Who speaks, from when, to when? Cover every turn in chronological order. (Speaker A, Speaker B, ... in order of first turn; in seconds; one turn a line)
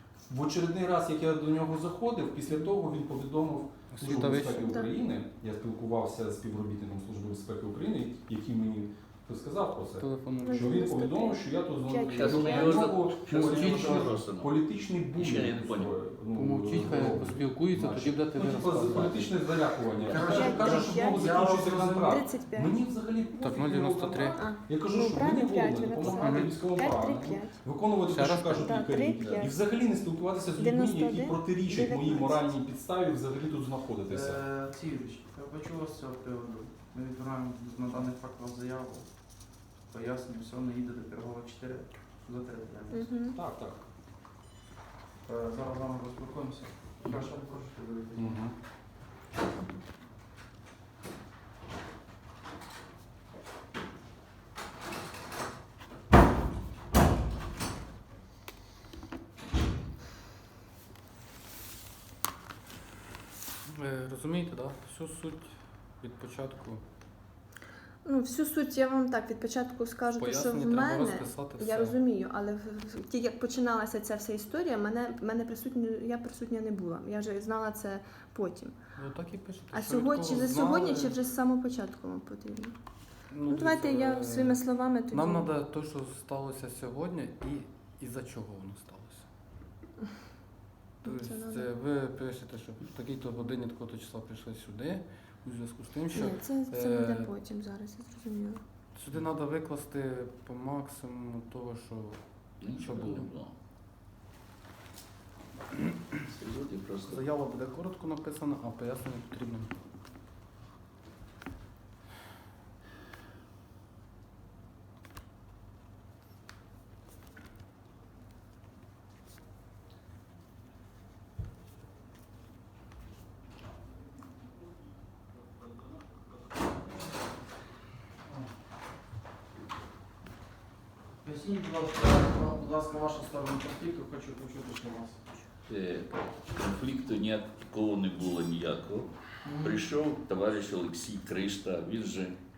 Speaker A: 0.3-34.4
Speaker B: 3.9-4.8
Speaker C: 4.3-4.9
Speaker B: 10.0-10.8
Speaker C: 10.4-12.9
Speaker D: 12.2-14.5
Speaker B: 13.4-14.2
Speaker D: 15.1-15.9
Speaker B: 16.3-19.4
Speaker E: 20.0-22.2
Speaker B: 20.1-20.4
Speaker C: 20.2-21.3
Speaker C: 22.0-22.8
Speaker B: 23.4-24.4
Speaker C: 24.4-27.6
Speaker B: 26.1-26.5
Speaker B: 28.0-28.7
Speaker C: 28.5-29.6
Speaker C: 30.6-32.5
Speaker E: 34.1-39.0
Speaker E: 39.9-43.1
Speaker C: 42.9-43.4
Speaker A: 43.2-43.8
Speaker E: 45.2-48.4
Speaker A: 48.2-48.5
Speaker B: 63.7-66.8
Speaker C: 68.0-78.8
Speaker B: 70.2-72.0
Speaker B: 79.0-81.2
Speaker C: 79.7-82.7
Speaker B: 83.3-89.2
Speaker C: 83.5-85.5
Speaker C: 91.0-91.7
Speaker B: 91.0-97.3
Speaker C: 96.1-98.6
Speaker B: 98.9-103.3
Speaker D: 102.6-103.5
Speaker D: 106.3-107.2
Speaker B: 107.0-109.7
Speaker E: 131.2-135.2
Speaker D: 135.7-139.1
Speaker E: 139.4-139.8
Speaker D: 139.6-142.3